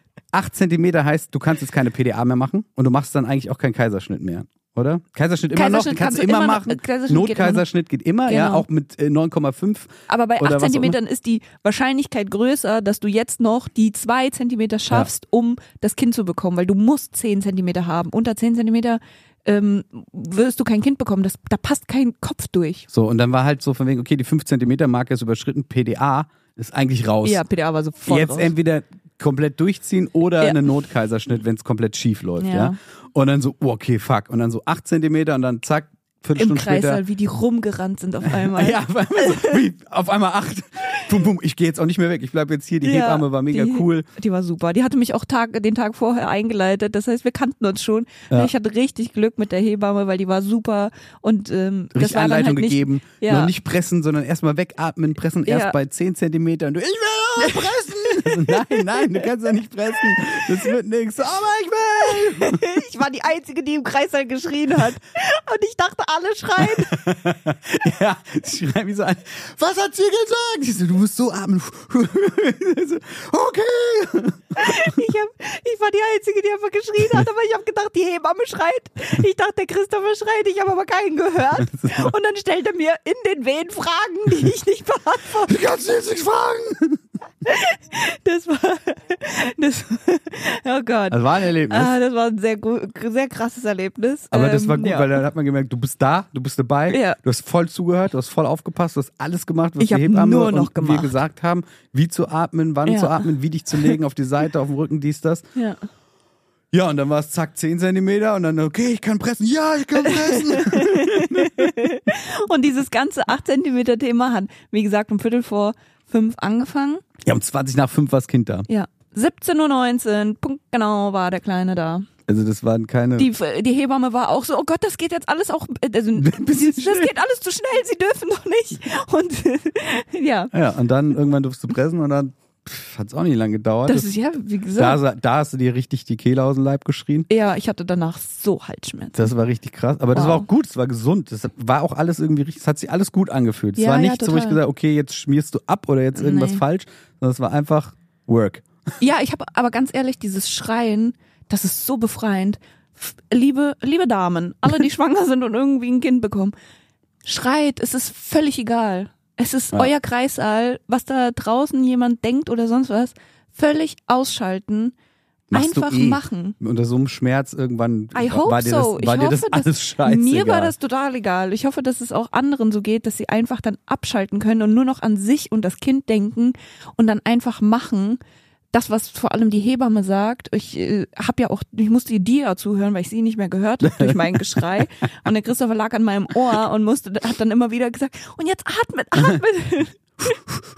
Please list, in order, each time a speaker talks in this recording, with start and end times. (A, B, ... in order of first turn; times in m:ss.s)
0:00.3-0:11.0 A
0:05.5-0:07.7 B
0:08.3-0:08.6 B
0:10.1-0:22.9 B
0:22.9-0:27.4 A
0:27.2-0:28.5 B
0:28.1-0:37.0 A
0:32.4-0:32.8 B
0:36.4-0:39.6 B
0:38.3-0:44.1 A
0:42.8-0:53.5 B
0:51.9-1:02.6 A
0:55.5-0:55.8 B
0:57.4-0:59.2 B
1:02.1-1:07.0 B
1:06.6-1:15.0 A
1:14.6-1:25.6 B
1:21.6-1:22.1 A
1:25.5-1:27.0 A
1:27.4-1:35.2 B
1:31.1-1:31.9 A
1:34.3-1:45.5 A
1:36.9-1:37.2 B
1:39.8-1:41.2 B
1:42.9-1:44.0 B
1:46.7-1:51.7 A
1:50.0-1:57.0 B
1:57.2-1:58.7 A
1:58.7-2:02.1 B
2:02.3-2:03.3 A
2:03.2-2:10.5 B
2:06.2-2:07.1 A
2:10.5-2:14.1 A
2:13.9-2:15.0 B
2:14.8-2:17.3 A
2:17.3-2:19.3 B
2:19.2-2:28.6 A
2:20.1-2:20.5 B
2:23.8-2:24.6 B
2:26.2-2:26.6 B
2:29.0-2:36.6 B
2:37.2-2:45.0 B
2:45.5-2:50.7 A
2:45.5-2:46.6 B
2:48.2-2:58.2 B
2:58.7-3:10.4 B
3:03.8-3:04.8 A